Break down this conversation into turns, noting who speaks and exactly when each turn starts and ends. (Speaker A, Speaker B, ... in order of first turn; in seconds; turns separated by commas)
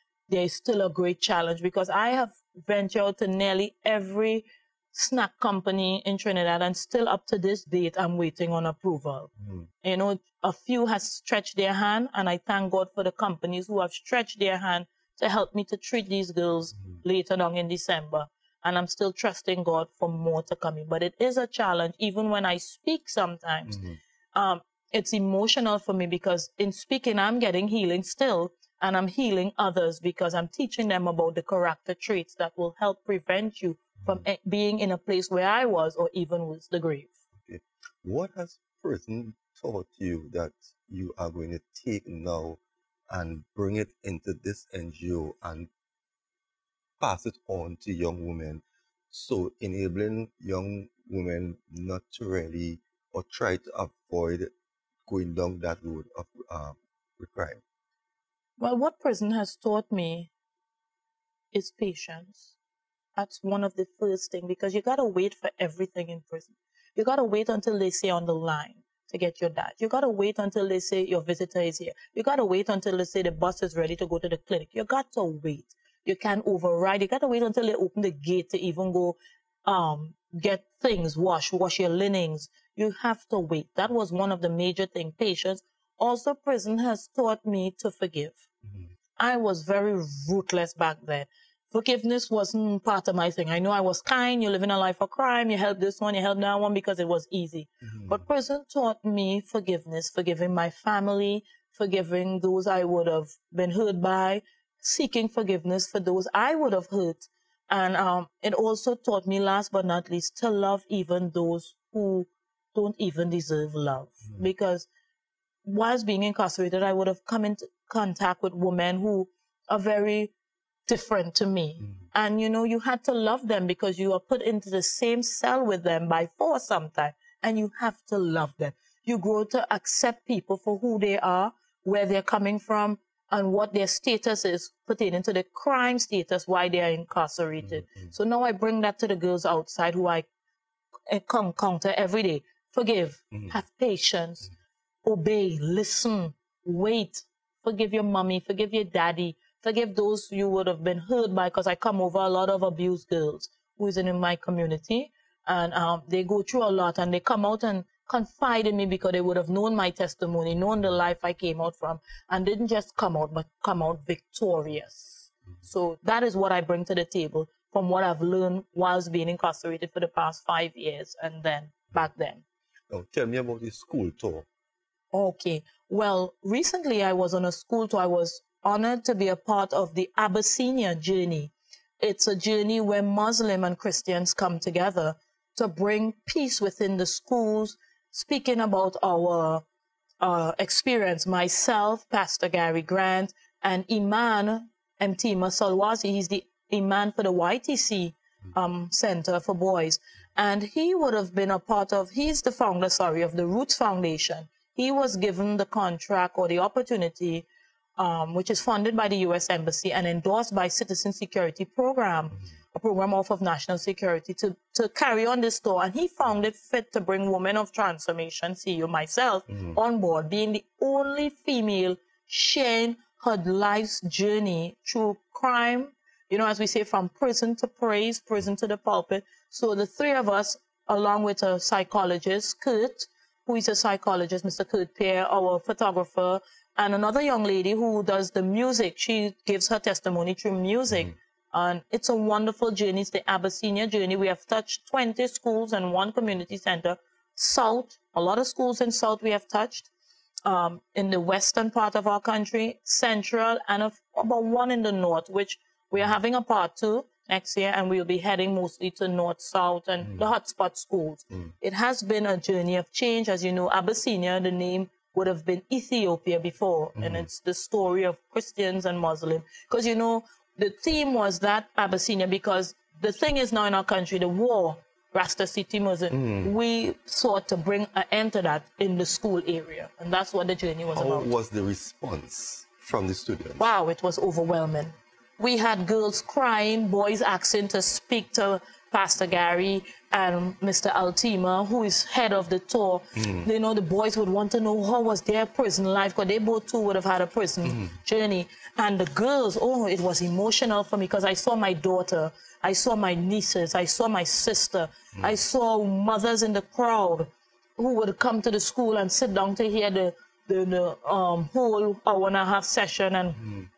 Speaker A: 0.3-9.3, Speaker B: 9.4-9.7, Speaker A: 9.8-23.8, Speaker B: 23.7-24.0, Speaker A: 24.3-37.1, Speaker B: 37.4-45.7, Speaker B: 47.0-54.5, Speaker B: 55.1-57.6, Speaker A: 58.6-60.3, Speaker A: 61.5-62.5, Speaker A: 63.1-88.5, Speaker A: 89.2-114.9, Speaker B: 97.8-98.2, Speaker A: 115.6-120.3, Speaker A: 120.9-140.3, Speaker B: 137.6-138.1, Speaker A: 141.1-144.5, Speaker A: 145.0-172.4, Speaker B: 172.9-174.5, Speaker A: 175.1-189.6, Speaker A: 190.2-207.4, Speaker A: 208.0-249.9, Speaker B: 219.5-219.8, Speaker A: 250.4-281.3, Speaker B: 266.9-267.3, Speaker B: 276.1-276.5, Speaker B: 280.9-283.7, Speaker A: 283.6-313.4, Speaker B: 293.1-293.5, Speaker B: 297.6-297.9, Speaker B: 313.4-313.7